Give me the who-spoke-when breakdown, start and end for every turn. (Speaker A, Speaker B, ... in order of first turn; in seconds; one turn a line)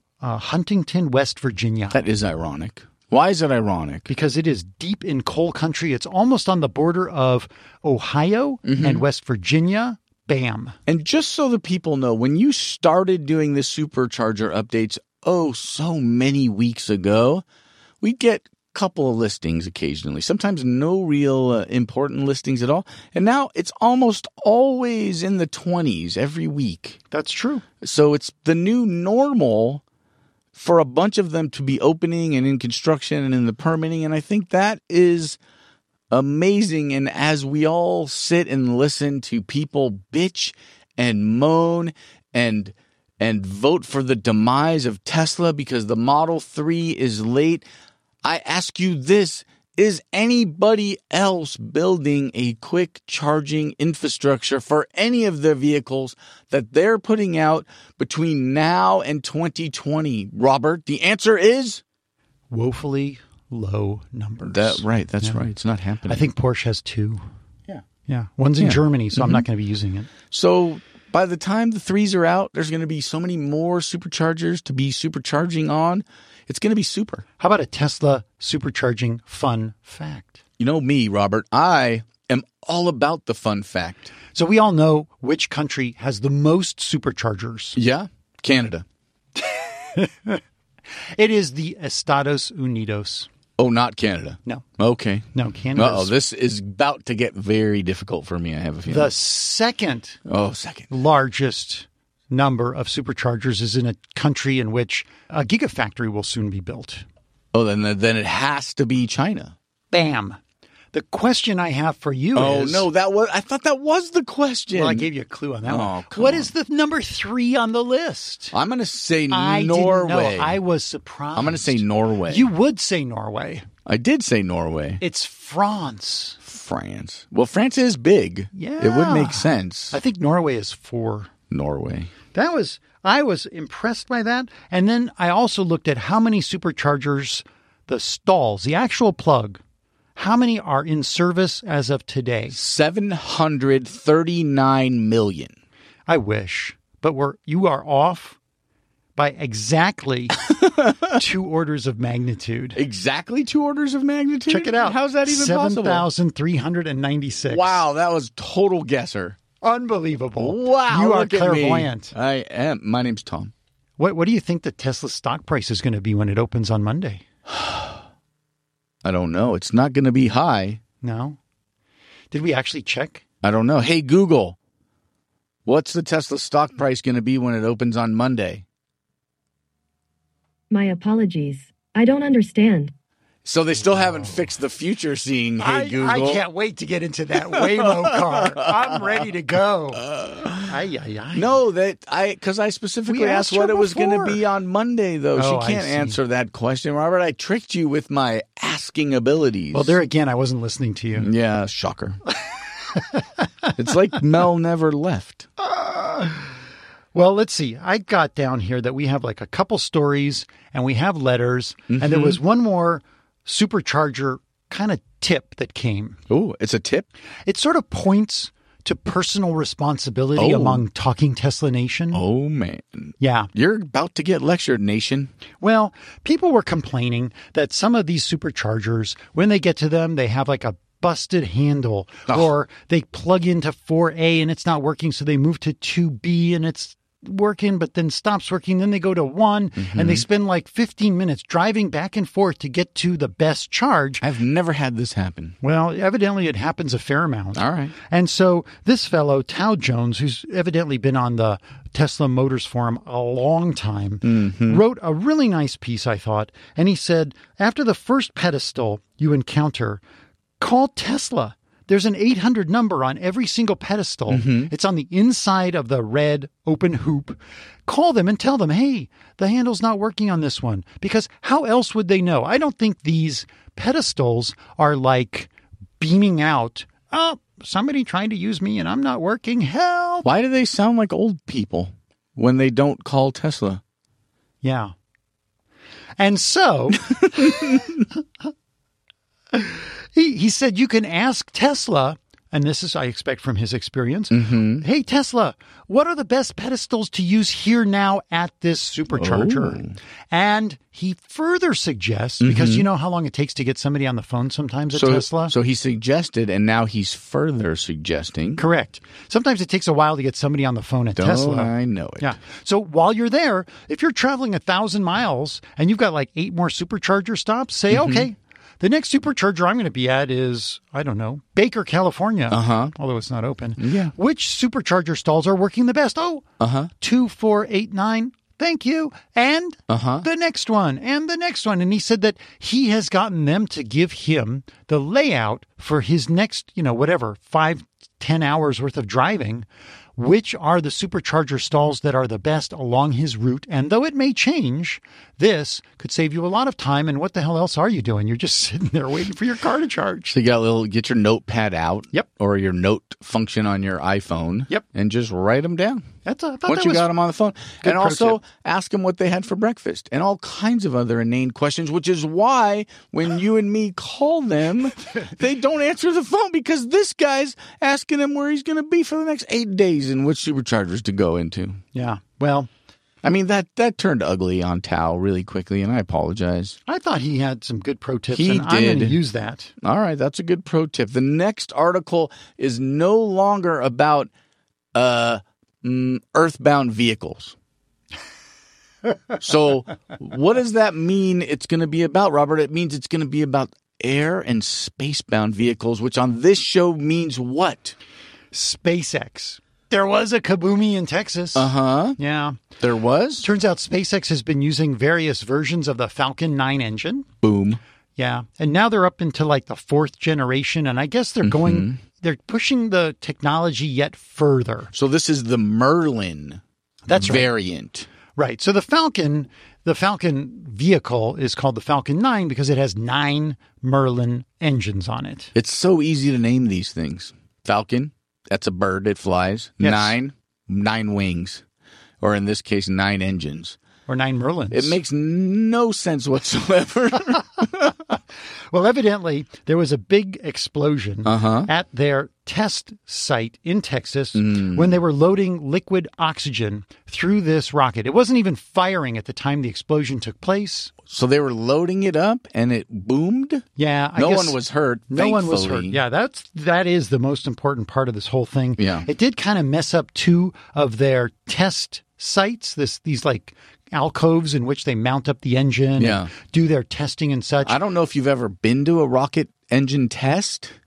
Speaker A: 0.2-2.0
Speaker B: 1.9-4.1
Speaker A: 4.1-10.8
Speaker B: 8.6-9.0
Speaker B: 10.9-17.4
Speaker B: 18.0-27.0
Speaker A: 27.1-27.6
Speaker B: 27.8-29.8
Speaker B: 30.5-35.4
Speaker B: 36.1-47.6
Speaker B: 48.2-61.8
Speaker A: 62.5-65.4
Speaker B: 64.4-66.3
Speaker A: 66.1-67.2
Speaker A: 68.1-70.1
Speaker B: 68.6-69.4
Speaker B: 70.3-77.2
Speaker A: 77.4-80.4
Speaker B: 80.6-84.1
Speaker A: 84.3-87.8
Speaker B: 87.7-88.8
Speaker A: 89.4-90.4
Speaker A: 91.1-93.3
Speaker B: 93.6-99.1
Speaker A: 95.3-96.1
Speaker A: 98.8-100.2
Speaker B: 100.2-100.9
Speaker A: 100.9-107.0
Speaker B: 107.5-109.5
Speaker A: 109.9-110.4
Speaker A: 110.9-112.9
Speaker B: 112.3-115.1
Speaker A: 114.7-118.5
Speaker B: 115.7-116.5
Speaker B: 118.5-120.6
Speaker A: 119.3-123.7
Speaker B: 121.3-122.5
Speaker B: 123.8-125.0
Speaker A: 125.0-126.4
Speaker B: 126.4-130.0
Speaker A: 128.5-131.3
Speaker B: 131.5-132.1
Speaker A: 132.3-139.6
Speaker A: 140.2-142.6
Speaker B: 142.5-145.5
Speaker A: 146.1-148.4
Speaker A: 149.2-150.4
Speaker B: 150.4-151.2
Speaker A: 151.1-152.8
Speaker B: 152.8-156.1
Speaker A: 154.5-157.8
Speaker B: 157.5-159.4
Speaker A: 159.6-162.1
Speaker B: 160.4-163.5
Speaker A: 164.0-167.2
Speaker B: 167.5-167.9
Speaker B: 169.0-170.8
Speaker A: 171.0-171.4
Speaker A: 172.3-173.2
Speaker B: 173.4-174.6
Speaker B: 175.7-178.6
Speaker C: 180.7-182.9
Speaker B: 183.4-186.4
Speaker A: 183.8-184.4
Speaker A: 185.6-190.0
Speaker B: 187.5-189.2
Speaker B: 189.9-190.7
Speaker A: 190.6-191.5
Speaker B: 191.3-200.0
Speaker A: 193.1-194.4
Speaker A: 195.3-196.2
Speaker A: 199.7-201.3
Speaker B: 201.2-202.2
Speaker A: 202.9-203.7
Speaker B: 203.8-205.5
Speaker A: 205.6-206.5
Speaker A: 207.1-216.2
Speaker B: 211.9-212.4
Speaker B: 216.3-217.1
Speaker A: 217.4-222.2
Speaker B: 220.4-220.8
Speaker B: 222.1-225.3
Speaker A: 223.2-223.5
Speaker A: 225.6-244.2
Speaker B: 239.8-240.2
Speaker B: 244.2-245.5
Speaker A: 245.6-260.0
Speaker B: 247.5-247.9
Speaker B: 254.2-254.8
Speaker A: 260.6-280.3
Speaker B: 264.3-264.7
Speaker B: 280.2-283.8
Speaker A: 284.6-284.9
Speaker A: 286.2-288.2
Speaker B: 287.1-288.0
Speaker A: 289.5-305.5
Speaker B: 294.3-294.8
Speaker B: 299.1-299.9
Speaker B: 302.4-302.9
Speaker B: 304.9-308.6
Speaker A: 308.6-326.4
Speaker B: 311.1-312.3
Speaker B: 317.9-318.3
Speaker B: 322.5-322.9
Speaker B: 323.8-324.1
Speaker B: 326.6-326.9
Speaker A: 327.0-350.3
Speaker B: 329.9-330.2
Speaker B: 350.3-356.1
Speaker A: 356.2-357.1
Speaker B: 356.7-371.8
Speaker A: 357.8-358.4
Speaker A: 371.9-372.7
Speaker B: 373.2-376.8
Speaker A: 376.9-379.7
Speaker B: 378.3-379.2
Speaker B: 379.8-384.3
Speaker B: 384.9-387.5
Speaker B: 389.4-397.9
Speaker A: 398.5-402.6
Speaker B: 401.5-402.2
Speaker B: 402.8-403.5
Speaker A: 403.4-407.3
Speaker B: 407.4-407.8
Speaker A: 408.2-414.9
Speaker B: 411.4-412.0
Speaker B: 414.9-416.6
Speaker A: 417.1-417.5
Speaker B: 417.1-418.1
Speaker A: 418.4-425.5
Speaker B: 425.5-431.6
Speaker A: 429.8-430.1
Speaker B: 432.2-433.8
Speaker A: 434.1-435.0
Speaker B: 434.7-437.9
Speaker A: 438.7-450.9
Speaker B: 441.2-441.7
Speaker B: 444.3-444.9
Speaker B: 451.1-453.6
Speaker A: 453.8-467.8
Speaker B: 454.1-456.0
Speaker B: 458.8-459.1
Speaker B: 466.0-466.3
Speaker B: 467.6-470.8